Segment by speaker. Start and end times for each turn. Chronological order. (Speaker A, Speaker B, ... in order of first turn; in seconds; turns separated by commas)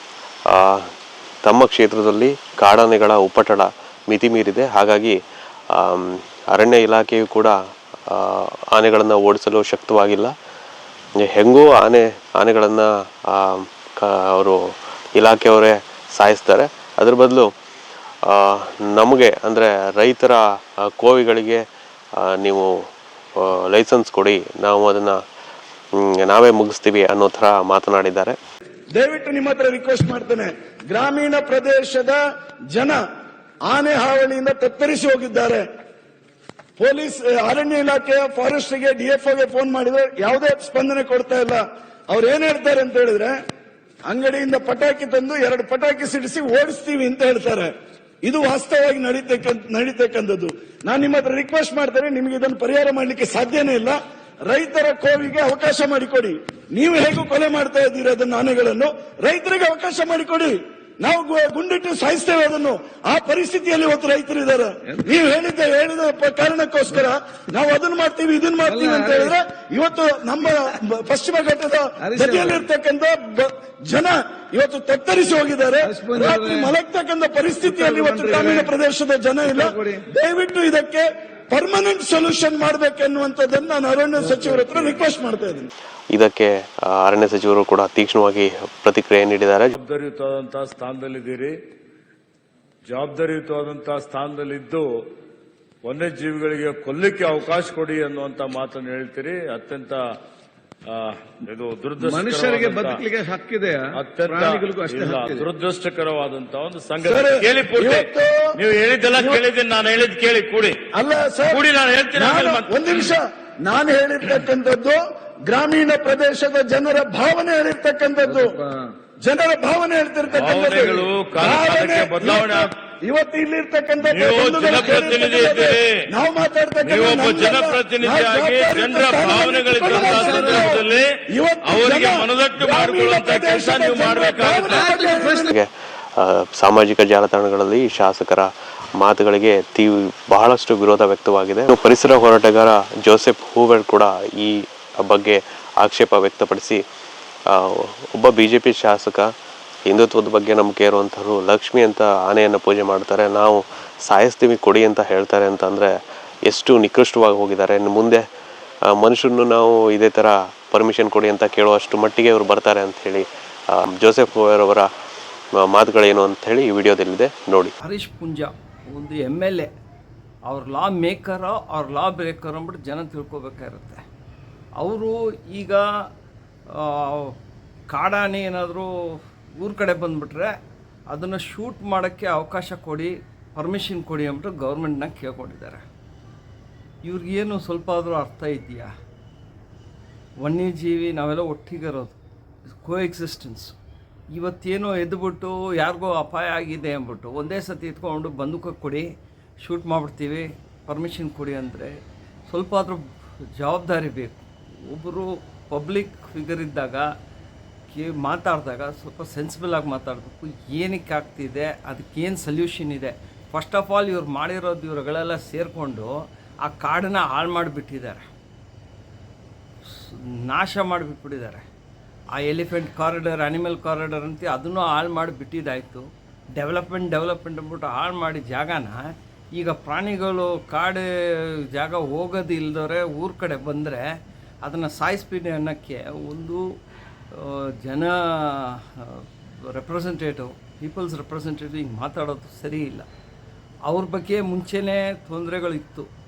Speaker A: 0.5-0.9, Speaker A: 1.4-5.2, Speaker A: 5.7-7.5, Speaker A: 8.1-10.3, Speaker A: 11.2-14.6, Speaker A: 15.2-17.5, Speaker A: 18.3-20.4, Speaker A: 20.9-21.6, Speaker A: 22.2-22.7, Speaker A: 23.4-25.2, Speaker A: 25.9-28.4, Speaker B: 28.9-32.2, Speaker B: 32.7-33.0, Speaker B: 33.6-35.7, Speaker B: 36.8-43.4, Speaker B: 44.1-47.7, Speaker B: 48.2-85.7, Speaker C: 68.7-69.4, Speaker C: 72.0-72.7, Speaker C: 75.8-76.7, Speaker C: 77.6-78.7, Speaker C: 79.4-80.0, Speaker C: 84.2-85.0, Speaker A: 86.1-89.7, Speaker D: 89.8-91.5, Speaker D: 92.9-95.1, Speaker D: 95.8-100.0, Speaker D: 100.9-103.0, Speaker C: 102.0-105.5, Speaker D: 104.0-110.8, Speaker B: 107.0-108.5, Speaker B: 109.1-109.4, Speaker B: 110.9-111.6, Speaker D: 111.5-113.1, Speaker B: 112.1-118.5, Speaker C: 118.2-118.8, Speaker B: 119.2-135.5, Speaker D: 120.3-122.7, Speaker D: 124.0-125.9, Speaker D: 126.8-131.1, Speaker C: 130.2-130.5, Speaker D: 131.6-134.9, Speaker C: 134.8-135.5, Speaker A: 135.5-146.8, Speaker A: 147.5-149.2, Speaker A: 149.9-155.9, Speaker A: 156.4-158.2, Speaker A: 158.9-164.9, Speaker A: 165.6-167.7, Speaker E: 167.8-169.7, Speaker E: 170.5-174.0, Speaker E: 174.8-175.9, Speaker E: 176.7-177.3, Speaker E: 177.9-180.5, Speaker E: 181.1-185.8, Speaker E: 187.0-188.9, Speaker E: 190.4-193.7, Speaker E: 194.3-199.1, Speaker E: 199.6-201.9, Speaker E: 202.5-203.0, Speaker E: 203.6-207.1, Speaker E: 207.9-218.2, Speaker E: 219.9-221.6, Speaker E: 222.3-234.1, Speaker E: 234.6-236.7, Speaker E: 237.3-243.1, Speaker E: 243.8-246.1